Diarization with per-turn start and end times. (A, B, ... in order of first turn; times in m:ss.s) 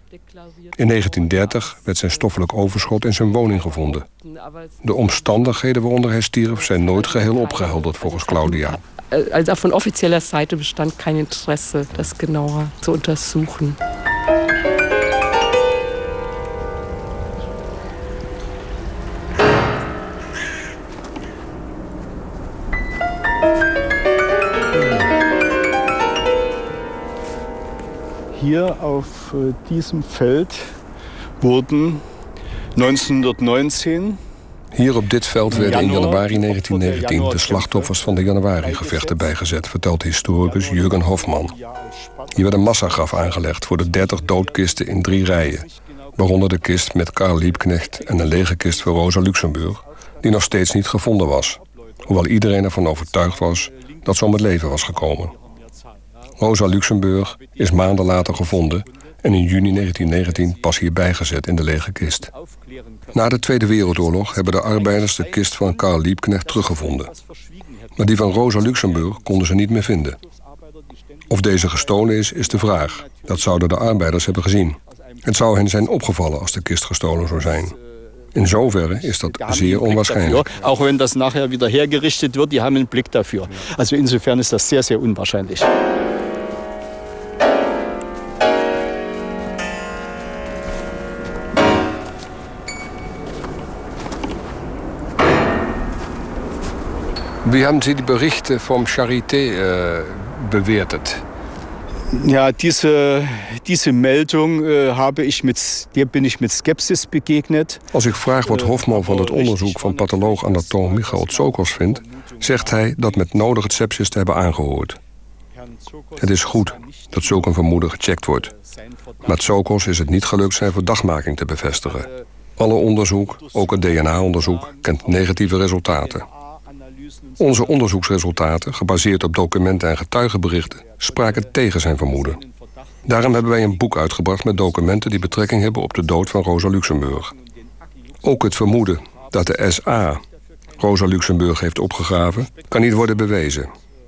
0:00.1-0:02.6 A
0:00.8-0:04.1 B
0:03.2-0:05.7 A
0:04.8-0:08.8 B
0:06.4-0:13.8 A
0:28.3-0:30.8 C
0:31.4-0:32.0 C
0:32.8-0:34.2 C
0:34.7-0:41.5 B
0:35.5-0:39.4 C
0:40.4-0:50.8 C
0:42.3-0:55.3 B
0:51.5-0:52.1 C
0:52.9-0:56.0 C
0:56.4-1:02.3 B
0:57.3-1:01.0 C
1:02.3-1:09.7 C
1:03.1-1:07.1 B
1:08.0-1:10.2 B
1:10.2-1:14.3 C
1:11.3-1:17.7 B
1:14.9-1:16.2 C
1:17.2-1:17.8 C
1:18.3-1:20.5 B
1:18.5-1:25.7 C
1:37.4-1:41.2 B
1:42.1-1:47.8 C
1:47.9-1:55.0 B
1:48.4-1:53.7 C
1:55.6-2:00.9 C
1:56.2-1:58.5 B
1:59.2-2:06.2 B
2:01.8-2:02.2 C
2:03.2-2:08.4 C
2:07.4-2:12.4 B
2:10.8-2:16.5 C
2:13.1-2:17.3 B
2:17.4-2:20.1 C
2:18.2-2:20.2 B
2:20.8-2:23.7 B
2:22.0-2:23.4 C